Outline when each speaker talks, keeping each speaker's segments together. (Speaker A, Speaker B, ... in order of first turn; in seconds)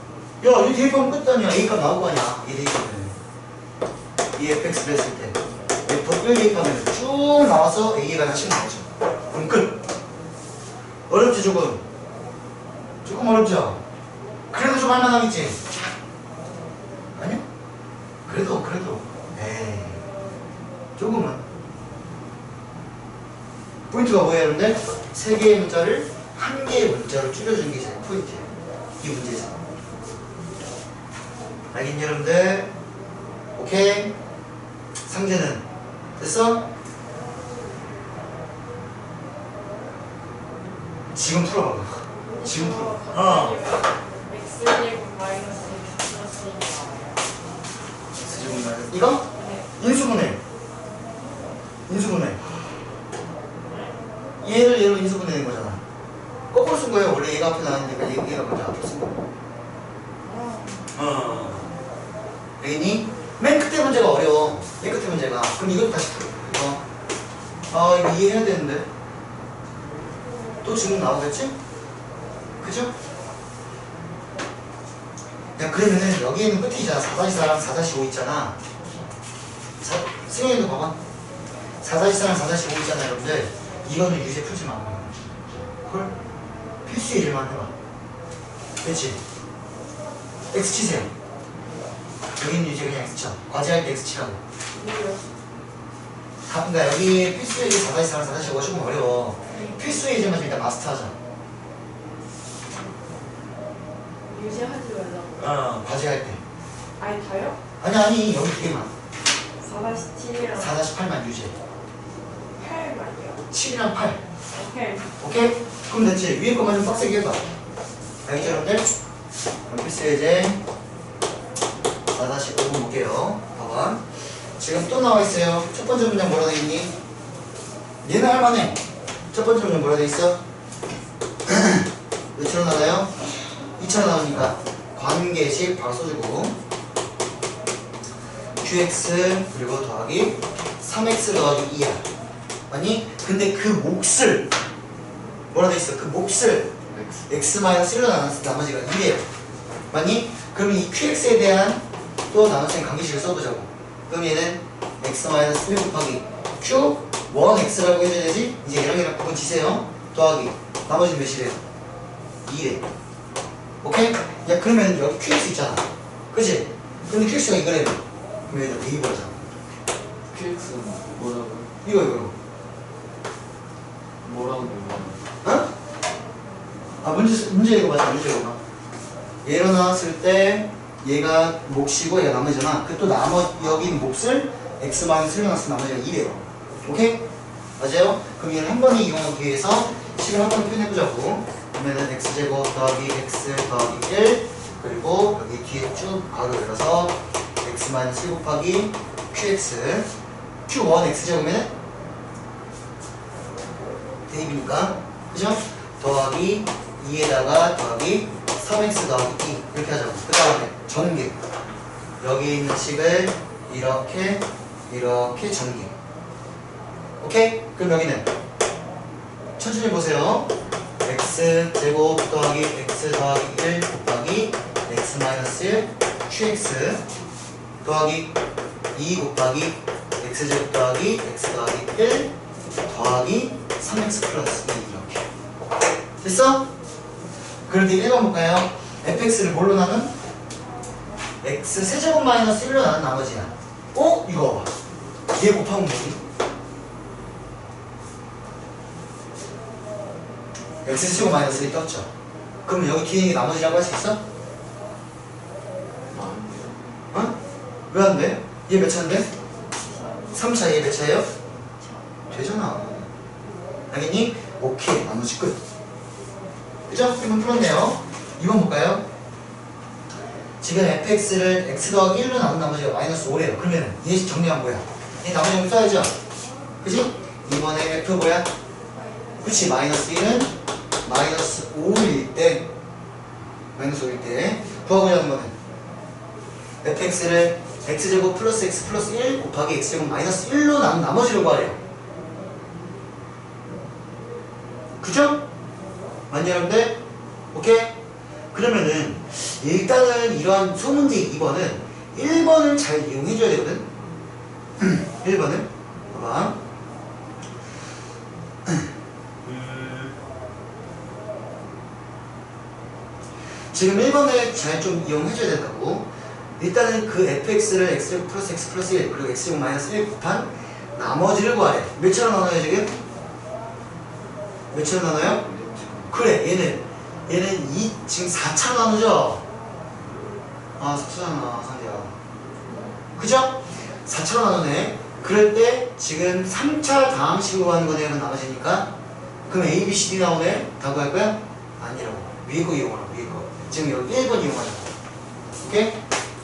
Speaker A: 0.4-3.2, 4.4-9.8, 11.1-11.8, 13.1-13.8, 14.5-15.6, 17.1-17.4, 18.3-20.0, 21.0-21.4, 23.9-28.5, 29.0-29.6, 31.7-32.7, 33.6-34.1, 35.1-35.7, 36.2-36.6, 41.1-43.6, 48.1-50.4, 51.9-52.4, 54.4-55.8, 56.5-59.2, 60.9-61.7, 62.6-66.8, 67.7-68.9, 70.6-71.6, 72.6-72.9, 75.6-78.6, 79.8-81.0, 81.8-85.2, 85.8-86.1, 86.9-87.7, 88.8-89.2, 90.5-91.1, 92.4-94.4, 96.5-101.2, 105.4-106.4, 107.8-108.9, 110.6-111.5, 113.5-114.2, 115.2-117.4, 118.2-118.9, 119.7-120.6, 122.1-124.0, 124.6-126.9, 128.0-128.8, 129.3-130.4, 131.5-133.1, 133.8-136.6, 138.6-142.0, 142.7-144.5, 145.5-146.7, 147.3-149.3, 149.9-161.6, 162.4-162.8, 163.8-169.4, 171.8-172.3, 175.4-175.7, 177.0-178.6, 179.4-187.2, 187.8-200.1, 200.7-201.7, 204.3-211.3, 212.2-215.9, 217.2-218.3, 219.6-220.5, 221.0-227.0, 227.8-228.3, 228.9-232.3, 232.9-235.3, 236.2-236.7, 237.7-240.1, 241.4-244.7, 245.3-246.2, 250.8-252.1, 252.7-254.2, 257.9-259.3, 260.3-261.3, 262.3-263.1, 263.9-265.6, 266.9-269.1, 270.6-276.1, 276.8-278.5, 279.4-280.5, 281.0-282.7, 283.8-285.6, 286.8-291.8, 295.0-295.4, 296.3-297.0, 297.5-298.0, 298.5-303.9, 304.8-306.6, 309.5-310.1, 313.7-316.1, 316.6-322.9, 324.7-325.4, 326.1-329.4, 330.8-332.1, 333.2-338.9, 339.5-344.9, 345.6-346.0
Speaker B: 42.3-47.2, 49.4-49.7, 60.2-60.9, 94.7-95.2, 99.5-99.8, 104.3-105.6, 107.0-107.6, 109.6-110.7, 112.6-113.5, 114.5-115.1, 259.9-260.5, 261.8-262.2, 279.2-279.6
Speaker C: 146.9-147.3, 170.3-171.7, 174.2-175.2, 256.1-256.8, 325.3-326.1, 332.7-332.9